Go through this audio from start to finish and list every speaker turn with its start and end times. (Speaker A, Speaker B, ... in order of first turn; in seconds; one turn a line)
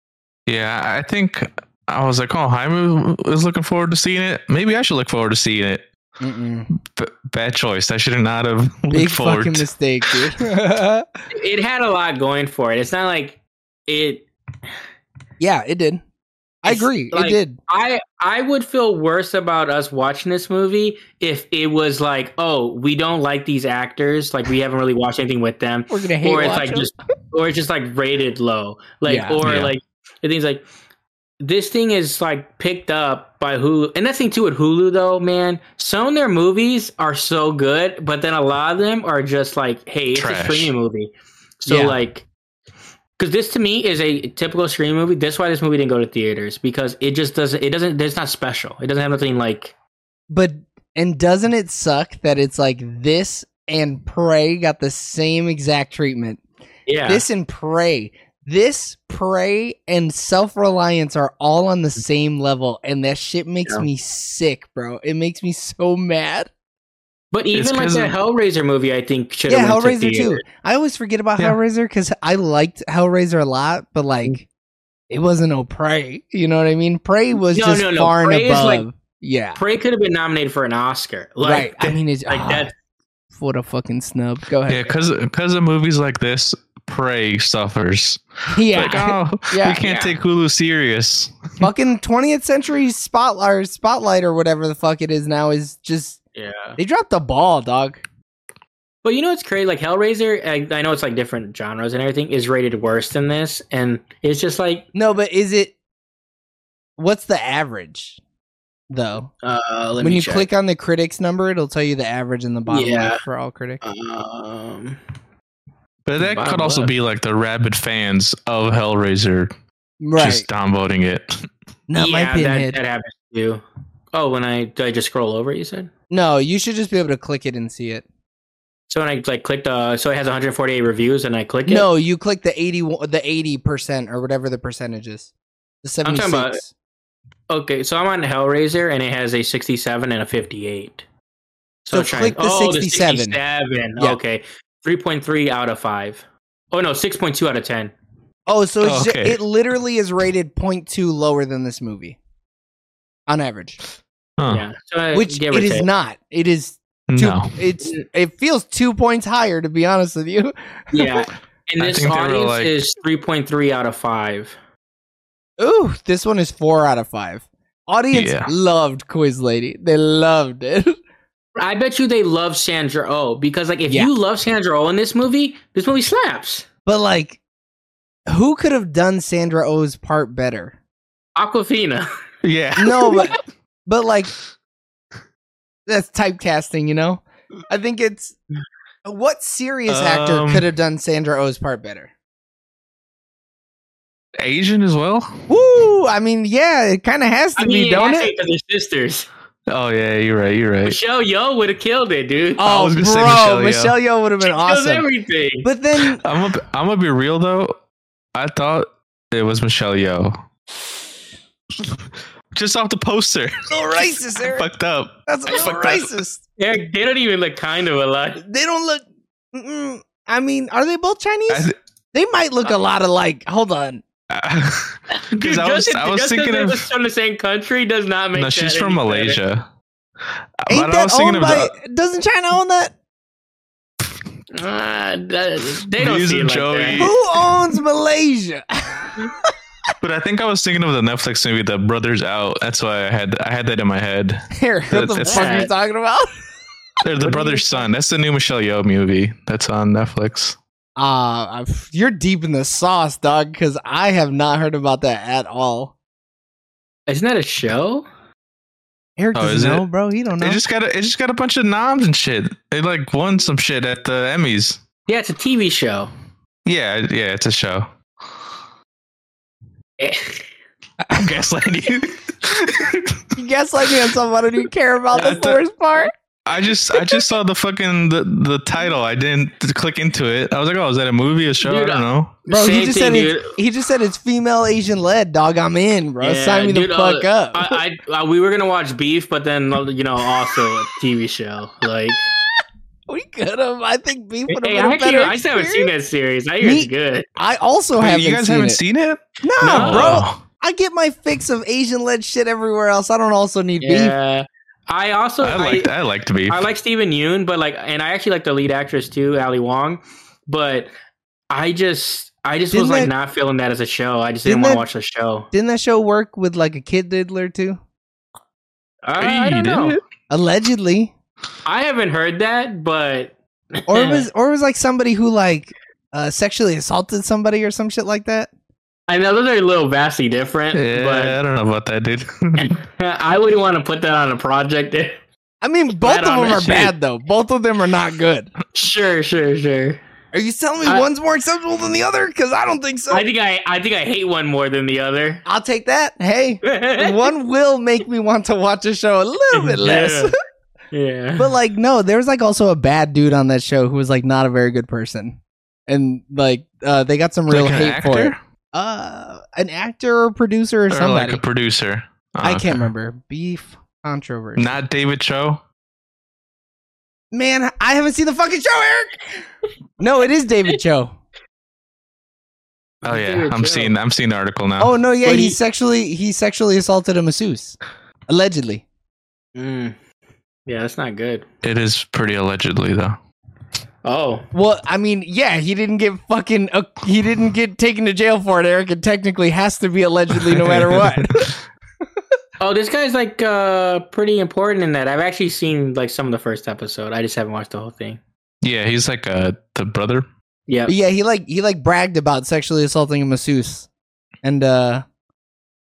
Speaker A: 0.5-5.9
Speaker B: 6.2-6.7
Speaker A: 6.7-9.7
Speaker B: 8.9-11.1
Speaker C: 11.3-14.3
Speaker B: 15.4-16.0
Speaker B: 16.6-17.6
Speaker C: 16.6-30.6
Speaker B: 25.9-26.9
Speaker B: 29.0-29.4
Speaker A: 29.4-29.8
Speaker C: 31.4-42.3
Speaker A: 40.1-40.7
Speaker B: 41.7-42.0
Speaker C: 43.2-49.8
Speaker B: 50.3-56.4
Speaker C: 56.9-57.2
Speaker B: 57.1-66.5
Speaker C: 67.3-70.4
Speaker A: 67.5-68.1
Speaker B: 69.5-74.5
Speaker B: 75.1-79.6
Speaker C: 77.5-78.9
Speaker C: 79.5-82.7
Speaker B: 81.4-82.7
Speaker B: 83.3-85.0
Speaker A: 84.7-91.6
Speaker B: 88.5-89.8
Speaker C: 89.8-90.2
Speaker B: 91.6-96.2
Speaker C: 96.3-96.8
Speaker B: 96.8-98.0
Speaker C: 99.0-104.9
Speaker B: 105.0-105.8
Speaker B: 107.0-108.2
Speaker B: 108.9-109.3
Speaker C: 109.4-110.5
Speaker B: 110.0-113.8
Speaker C: 112.7-113.2
Speaker C: 113.8-115.0
Speaker A: 116.0-119.5
Speaker C: 116.2-116.9
Speaker B: 120.0-120.5
Speaker A: 120.2-121.5
Speaker B: 121.9-122.8
Speaker C: 122.0-125.9
Speaker B: 126.1-128.0
Speaker C: 128.9-131.9
Speaker B: 131.7-135.3
Speaker B: 135.8-136.7
Speaker C: 136.0-136.6
Speaker C: 137.5-141.0
Speaker C: 141.8-147.9
Speaker B: 141.9-143.4
Speaker B: 148.5-152.2
Speaker A: 148.8-149.4
Speaker B: 153.3-153.8
Speaker A: 154.4-154.6
Speaker C: 154.5-155.9
Speaker B: 155.1-161.2
Speaker A: 157.1-157.6
Speaker C: 160.9-164.6
Speaker A: 161.8-162.7
Speaker B: 165.6-171.0
Speaker A: 168.1-168.5
Speaker C: 171.6-176.7
Speaker B: 176.9-177.4
Speaker B: 178.3-180.8
Speaker C: 181.4-182.1
Speaker A: 182.4-183.3
Speaker B: 182.8-184.3
Speaker B: 185.9-188.4
Speaker B: 189.0-192.1
Speaker A: 189.9-190.6
Speaker A: 194.4-195.5
Speaker B: 195.5-198.3
Speaker C: 197.6-199.3
Speaker A: 199.7-201.0
Speaker C: 200.8-202.7
Speaker B: 202.6-205.1
Speaker A: 202.6-203.9
Speaker C: 204.4-205.7
Speaker B: 205.6-206.2
Speaker A: 206.2-207.8
Speaker A: 208.3-210.4
Speaker A: 212.5-216.1
Speaker B: 213.7-214.7
Speaker B: 215.3-216.4
Speaker C: 216.6-218.4
Speaker B: 218.4-224.0
Speaker A: 221.5-221.8
Speaker A: 224.3-226.9
Speaker C: 225.1-229.4
Speaker A: 228.3-229.7
Speaker A: 230.6-231.7
Speaker B: 230.7-232.9
Speaker C: 234.5-237.1
Speaker A: 236.0-237.2
Speaker B: 237.0-239.5
Speaker A: 240.0-245.6
Speaker B: 244.5-246.3
Speaker C: 245.2-245.7
Speaker A: 247.0-250.6
Speaker C: 247.2-247.9
Speaker B: 251.0-255.9
Speaker C: 257.1-258.1
Speaker B: 259.2-260.6
Speaker A: 259.4-259.9
Speaker A: 260.4-264.8
Speaker C: 265.1-266.1
Speaker A: 266.6-267.9
Speaker C: 270.0-270.4
Speaker A: 271.1-273.3
Speaker B: 273.4-276.1
Speaker C: 275.1-275.6
Speaker A: 276.5-282.4
Speaker B: 276.9-277.2
Speaker C: 281.6-283.5
Speaker B: 282.5-287.8
Speaker C: 286.2-292.3
Speaker B: 293.1-295.9
Speaker C: 294.5-297.3
Speaker B: 296.6-298.8
Speaker A: 298.0-300.4
Speaker B: 299.4-304.1
Speaker C: 299.6-300.2
Speaker C: 303.8-305.9
Speaker A: 305.4-306.6
Speaker C: 306.5-310.9
Speaker C: 311.5-315.5
Speaker B: 312.7-313.1
Speaker B: 314.5-314.9
Speaker B: 315.5-317.8
Speaker C: 319.0-320.0
Speaker A: 319.2-320.0
Speaker B: 320.3-321.1
Speaker C: 321.6-324.3
Speaker B: 323.9-328.5
Speaker C: 329.1-331.4
Speaker A: 330.7-332.8
Speaker C: 332.6-335.2
Speaker B: 335.6-338.5
Speaker C: 336.0-336.9
Speaker C: 338.7-340.0
Speaker B: 340.3-343.2
Speaker C: 343.1-345.4
Speaker B: 345.5-350.3
Speaker C: 346.6-347.2
Speaker C: 349.5-350.3
Speaker C: 350.9-351.5
Speaker B: 351.4-361.4
Speaker A: 357.5-358.4
Speaker A: 360.9-362.9
Speaker B: 362.4-364.8
Speaker A: 364.6-365.6
Speaker B: 367.3-369.2
Speaker B: 370.0-371.1
Speaker C: 373.0-373.9
Speaker A: 373.0-374.9
Speaker B: 374.8-377.8
Speaker C: 375.2-375.6
Speaker B: 378.3-378.8
Speaker C: 379.5-380.0
Speaker C: 380.7-381.5
Speaker A: 381.6-383.2
Speaker C: 384.0-384.5
Speaker B: 384.5-391.5
Speaker A: 390.4-391.6
Speaker C: 392.6-398.2
Speaker A: 398.6-400.2
Speaker C: 400.7-400.9
Speaker B: 400.9-403.9
Speaker B: 404.4-405.0